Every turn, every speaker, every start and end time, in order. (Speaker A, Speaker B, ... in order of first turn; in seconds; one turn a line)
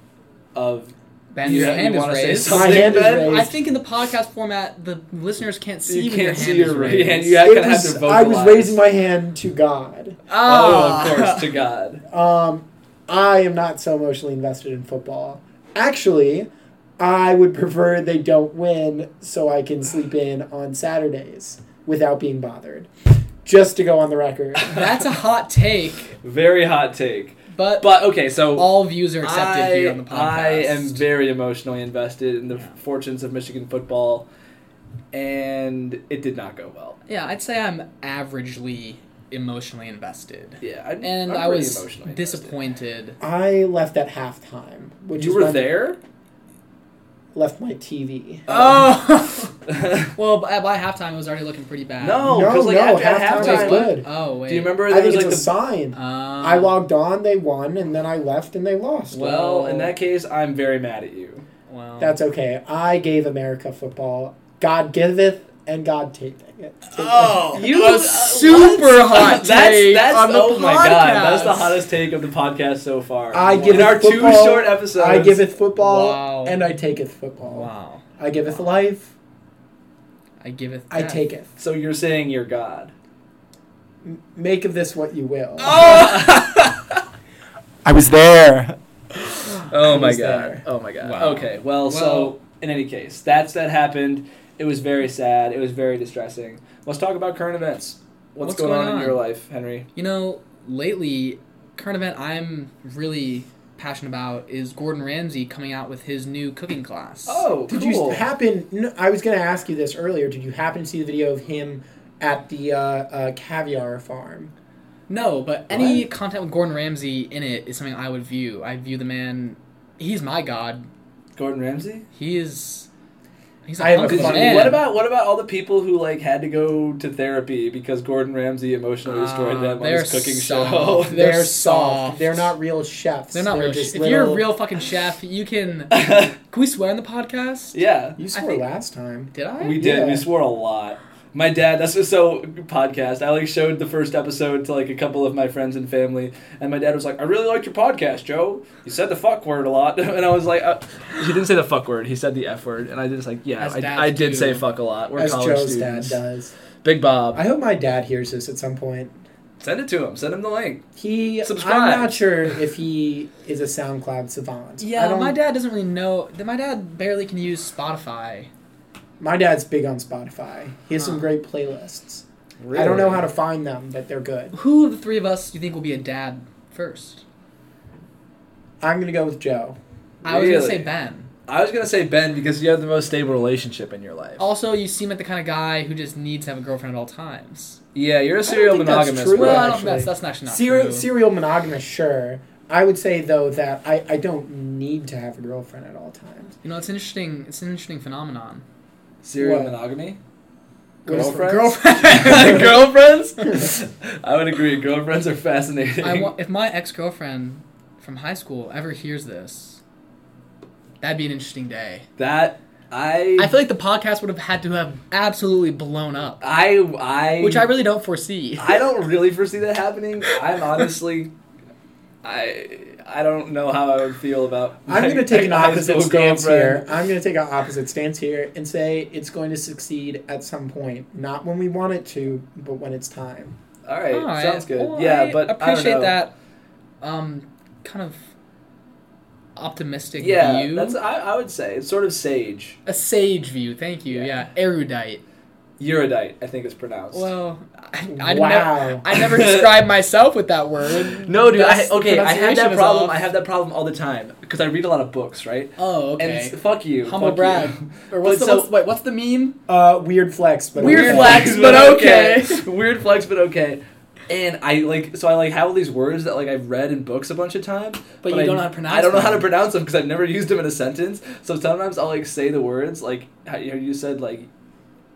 Speaker A: 0.5-3.4
Speaker B: 1.3-7.4
Speaker C: 2.5-3.5
Speaker A: 5.9-8.8
Speaker C: 7.4-10.2
Speaker B: 10.3-11.5
Speaker A: 10.4-12.0
Speaker C: 12.1-22.9
Speaker C: 23.4-24.8
Speaker B: 24.6-26.1
Speaker A: 24.7-24.9
Speaker A: 26.2-34.3
Speaker B: 27.5-31.0
Speaker A: 35.1-37.0
Speaker B: 37.1-43.2
Speaker A: 40.6-42.5
Speaker C: 43.2-45.7
Speaker A: 45.1-46.0
Speaker C: 47.3-48.5
Speaker B: 48.5-49.5
Speaker A: 48.5-48.9
Speaker A: 49.7-50.1
Speaker B: 50.1-52.4
Speaker A: 52.0-55.5
Speaker C: 52.2-54.0
Speaker B: 53.3-54.8
Speaker C: 54.9-59.7
Speaker B: 55.9-56.8
Speaker A: 59.1-61.4
Speaker B: 59.2-59.9
Speaker B: 61.7-62.2
Speaker C: 62.0-67.5
Speaker B: 66.9-71.8
Speaker A: 67.5-75.4
Speaker C: 73.3-79.1
Speaker B: 75.8-76.6
Speaker B: 77.5-78.0
Speaker B: 80.4-81.2
Speaker C: 80.9-81.5
Speaker A: 81.6-82.9
Speaker C: 84.0-85.9
Speaker B: 85.6-86.8
Speaker A: 85.7-86.7
Speaker C: 87.8-90.6
Speaker A: 89.6-99.9
Speaker B: 91.0-92.3
Speaker B: 98.4-99.2
Speaker B: 99.9-107.5
Speaker A: 107.3-108.2
Speaker C: 107.7-114.5
Speaker B: 115.1-120.9
Speaker A: 121.3-122.1
Speaker B: 122.1-122.9
Speaker B: 123.7-124.8
Speaker C: 123.8-124.8
Speaker A: 124.0-131.2
Speaker B: 129.1-132.5
Speaker C: 131.1-134.5
Speaker B: 133.3-137.8
Speaker A: 135.9-136.3
Speaker A: 137.7-138.2
Speaker C: 138.2-140.2
Speaker B: 138.3-138.6
Speaker B: 139.3-139.8
Speaker A: 139.6-156.2
Speaker B: 153.6-154.6
Speaker C: 155.2-156.5
Speaker A: 156.8-157.4
Speaker C: 157.3-159.2
Speaker A: 159.6-160.8
Speaker C: 161.0-165.4
Speaker A: 161.4-162.2
Speaker B: 164.8-168.5
Speaker C: 169.2-174.5
Speaker B: 171.0-171.3
Speaker A: 172.6-173.2
Speaker B: 174.5-177.2
Speaker C: 178.8-179.8
Speaker B: 180.2-181.3
Speaker A: 180.2-180.9
Speaker A: 181.5-184.4
Speaker B: 184.4-187.8
Speaker A: 187.9-189.8
Speaker C: 188.4-196.6
Speaker B: 189.3-191.1
Speaker B: 196.6-198.6
Speaker A: 199.2-200.2
Speaker C: 199.4-199.7
Speaker C: 201.1-201.4
Speaker A: 201.1-206.3
Speaker B: 201.1-202.9
Speaker B: 206.0-209.8
Speaker B: 211.0-212.1
Speaker A: 212.2-213.5
Speaker B: 213.4-216.4
Speaker A: 216.4-217.7
Speaker B: 217.4-218.8
Speaker A: 218.6-221.3
Speaker A: 222.2-226.9
Speaker C: 224.9-233.6
Speaker A: 233.8-236.2
Speaker B: 234.1-236.3
Speaker B: 237.0-238.2
Speaker B: 239.6-241.0
Speaker A: 240.2-242.8
Speaker B: 242.8-245.2
Speaker A: 245.8-247.3
Speaker B: 247.1-253.2
Speaker C: 248.1-249.1
Speaker A: 249.1-249.8
Speaker A: 251.2-258.7
Speaker B: 255.8-259.6
Speaker C: 259.7-261.6
Speaker B: 260.8-262.6
Speaker A: 260.8-274.5
Speaker B: 268.2-269.5